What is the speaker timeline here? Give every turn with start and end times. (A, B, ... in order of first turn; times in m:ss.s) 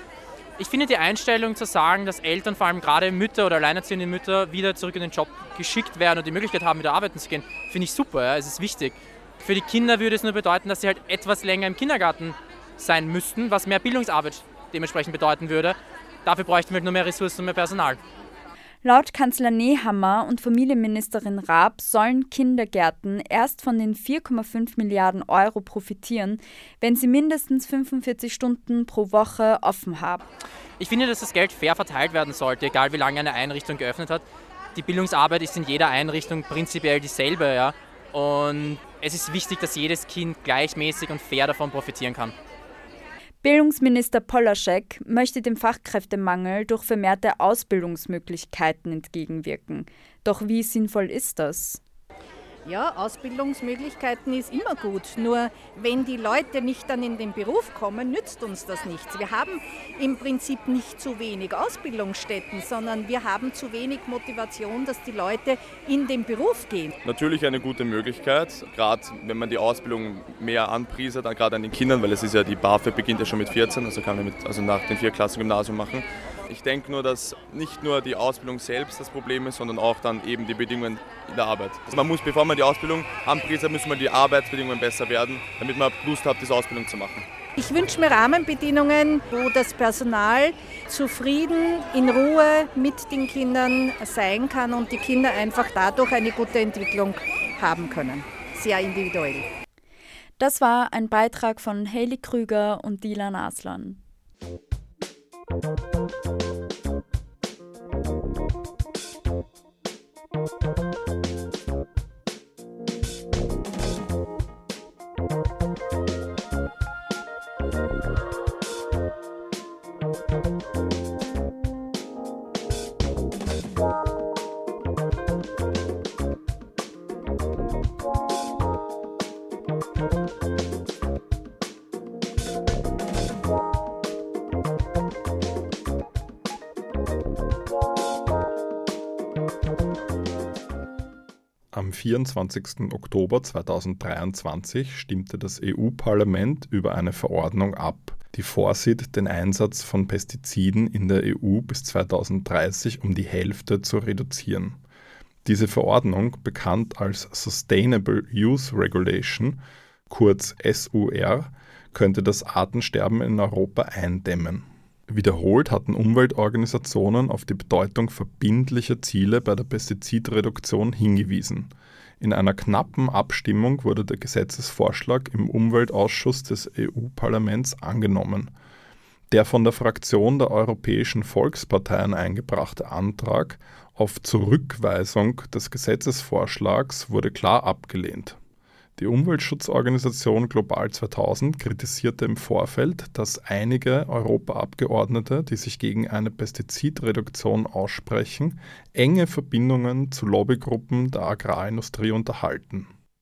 0:00.6-0:18.0 A
0:18.8-0:30.2 B
0:30.8-0:42.3 A
0:43.4-0:51.8 B
0:52.6-1:06.9 C
1:07.0-1:27.2 D
1:27.6-1:39.4 C
1:40.4-1:44.0 B
2:21.7-2:34.8 E
2:35.4-2:58.5 E
2:59.3-3:08.4 E
3:09.0-3:22.9 E